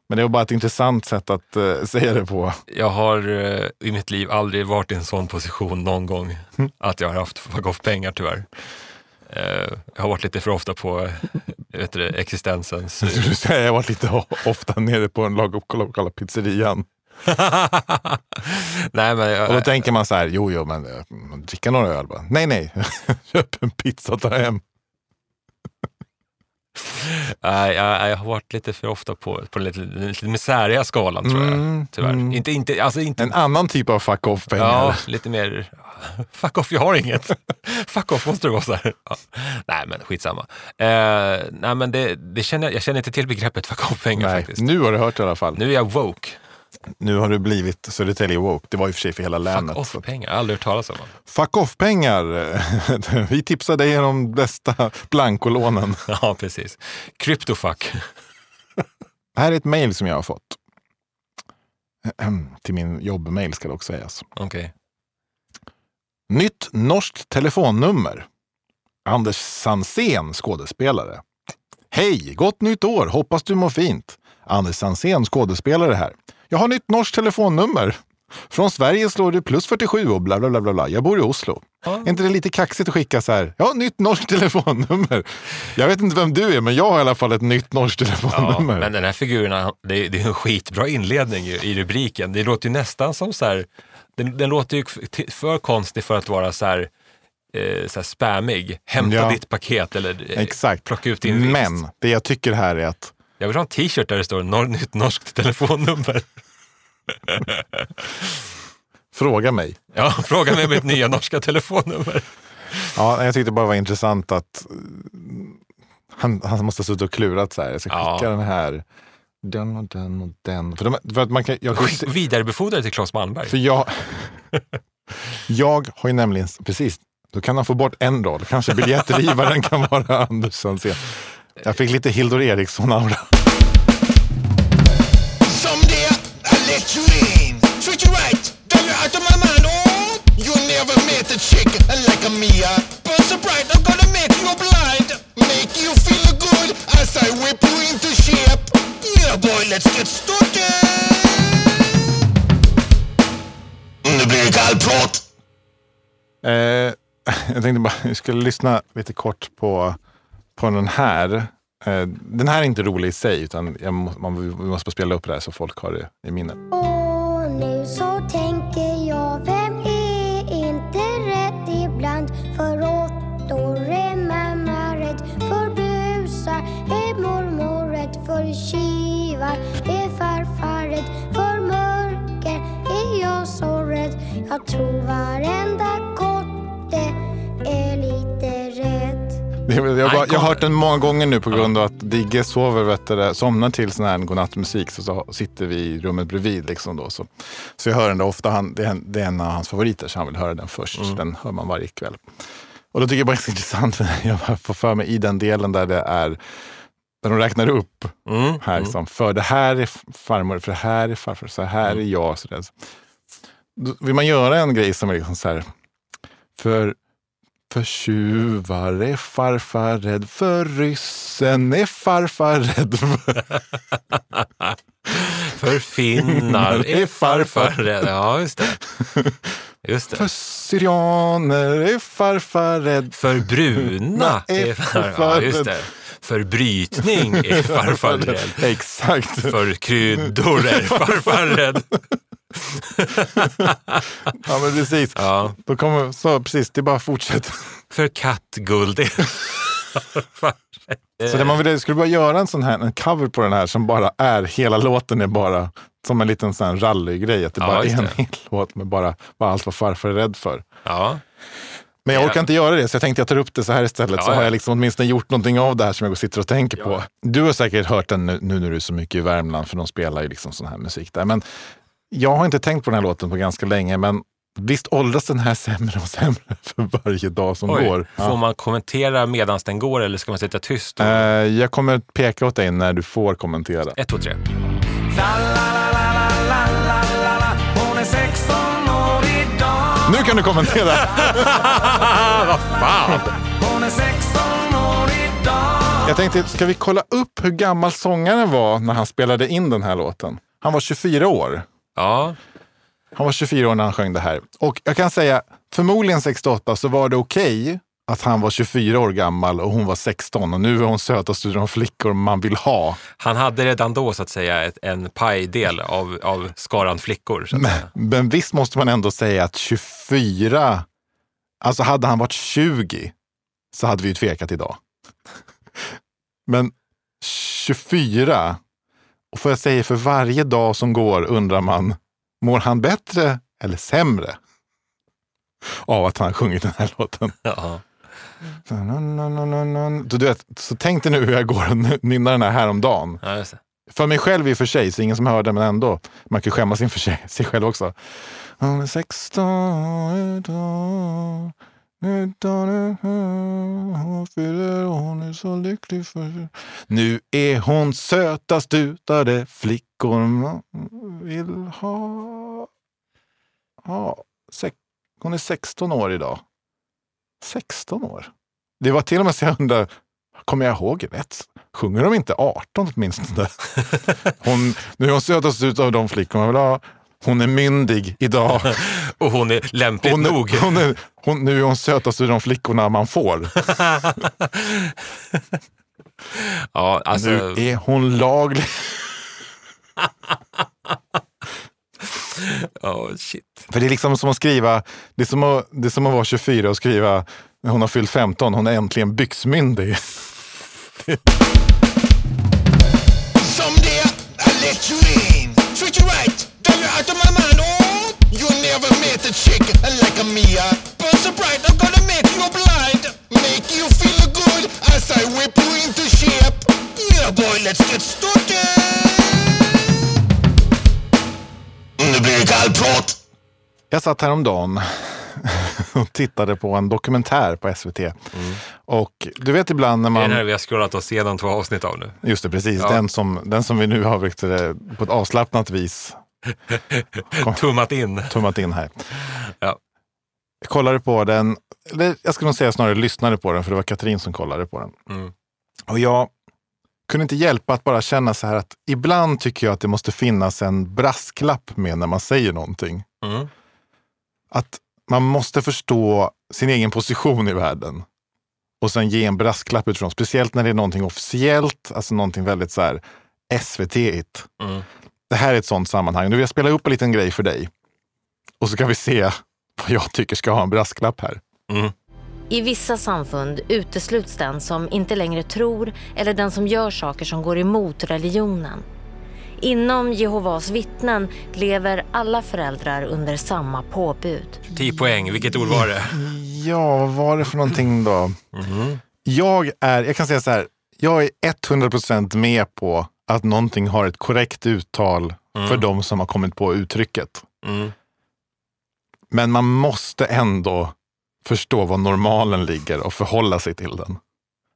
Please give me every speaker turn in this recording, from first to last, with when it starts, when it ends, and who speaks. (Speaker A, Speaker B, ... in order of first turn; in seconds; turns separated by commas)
Speaker A: 0.1-2.6, Speaker B: 2.7-8.5, Speaker B: 9.3-13.2, Speaker A: 13.0-16.9, Speaker B: 17.2-19.9, Speaker A: 19.4-24.6, Speaker B: 26.9-33.4, Speaker A: 31.2-32.4, Speaker A: 33.2-35.0, Speaker B: 34.5-44.6, Speaker A: 44.1-45.6, Speaker B: 45.5-46.4, Speaker A: 47.0-50.0, Speaker B: 49.5-51.1, Speaker A: 51.3-56.0, Speaker B: 56.1-58.0, Speaker A: 59.3-60.6, Speaker A: 62.0-64.2, Speaker B: 64.3-64.7, Speaker A: 66.3-68.3, Speaker A: 69.0-71.2, Speaker A: 71.9-88.9, Speaker B: 81.8-82.1, Speaker B: 88.3-96.9, Speaker B: 97.5-101.8, Speaker A: 99.0-99.4, Speaker A: 100.3-103.1, Speaker B: 103.4-106.3, Speaker B: 107.2-107.9, Speaker A: 109.1-109.8, Speaker B: 109.9-112.9, Speaker A: 112.9-115.6, Speaker A: 116.1-118.8, Speaker B: 117.9-118.3, Speaker A: 119.4-122.1, Speaker B: 121.7-123.6, Speaker A: 123.5-124.4, Speaker A: 125.5-133.3, Speaker C: 135.4-151.8, Speaker C: 154.0-155.2, Speaker A: 156.4-160.0, Speaker A: 160.6-166.6, Speaker D: 166.7-189.4, Speaker A: 189.7-202.2, Speaker B: 190.0-190.7, Speaker A: 202.9-206.4, Speaker A: 207.2-212.7, Speaker B: 208.3-208.9, Speaker A: 213.8-215.7, Speaker A: 216.6-217.0, Speaker A: 217.7-223.5, Speaker B: 224.3-228.8, Speaker A: 226.2-228.1, Speaker A: 229.0-229.4, Speaker B: 229.8-230.3, Speaker A: 230.1-235.8, Speaker B: 233.1-238.7, Speaker A: 237.0-239.6, Speaker B: 239.4-241.9, Speaker A: 240.2-241.6, Speaker B: 242.7-244.0, Speaker A: 244.3-247.7, Speaker B: 245.2-245.6, Speaker B: 247.9-251.6, Speaker A: 251.2-260.6, Speaker B: 257.6-258.2, Speaker B: 260.8-261.2, Speaker A: 262.0-271.4, Speaker B: 262.1-262.5, Speaker B: 264.1-264.5, Speaker A: 272.1-278.4, Speaker B: 277.7-281.3, Speaker A: 281.0-284.0, Speaker B: 284.0-284.4, Speaker C: 285.1-290.0, Speaker A: 290.0-291.6, Speaker B: 291.1-293.3, Speaker C: 293.6-296.0, Speaker A: 296.0-301.6, Speaker B: 301.9-302.4, Speaker A: 303.1-313.0, Speaker B: 313.2-317.9, Speaker A: 317.5-320.9, Speaker A: 321.6-323.1, Speaker A: 323.7-324.8, Speaker A: 326.5-328.6, Speaker A: 329.3-334.4, Speaker A: 335.6-337.4, Speaker B: 337.4-337.8, Speaker A: 338.7-343.2, Speaker B: 343.2-343.6, Speaker A: 343.9-362.7, Speaker A: 363.8-366.4, Speaker A: 367.4-369.9, Speaker A: 370.4-373.7, Speaker A: 374.3-378.8, Speaker B: 378.7-380.8, Speaker A: 380.0-383.6, Speaker B: 383.7-384.9, Speaker B: 386.3-387.6, Speaker A: 387.1-389.2, Speaker B: 392.1-393.7, Speaker A: 393.7-400.5, Speaker C: 403.4-419.8, Speaker C: 422.0-423.2, Speaker A: 423.9-430.4, Speaker B: 428.3-428.6, Speaker B: 430.1-432.2, Speaker A: 432.2-436.2, Speaker B: 436.7-438.4, Speaker A: 438.3-439.0, Speaker B: 439.3-439.8, Speaker A: 440.6-445.0, Speaker A: 445.9-446.3, Speaker A: 447.1-453.1, Speaker B: 453.2-453.5, Speaker A: 454.5-458.0, Speaker A: 458.8-464.5, Speaker B: 464.6-464.9, Speaker A: 465.3-467.7, Speaker A: 468.6-471.4, Speaker B: 471.7-471.9, Speaker E: 472.5-478.8, Speaker E: 479.6-484.6, Speaker B: 484.7-486.2, Speaker A: 484.7-488.4, Speaker B: 488.5-489.0, Speaker A: 489.2-497.4, Speaker B: 495.5-495.9, Speaker B: 497.6-497.9, Speaker A: 499.3-504.2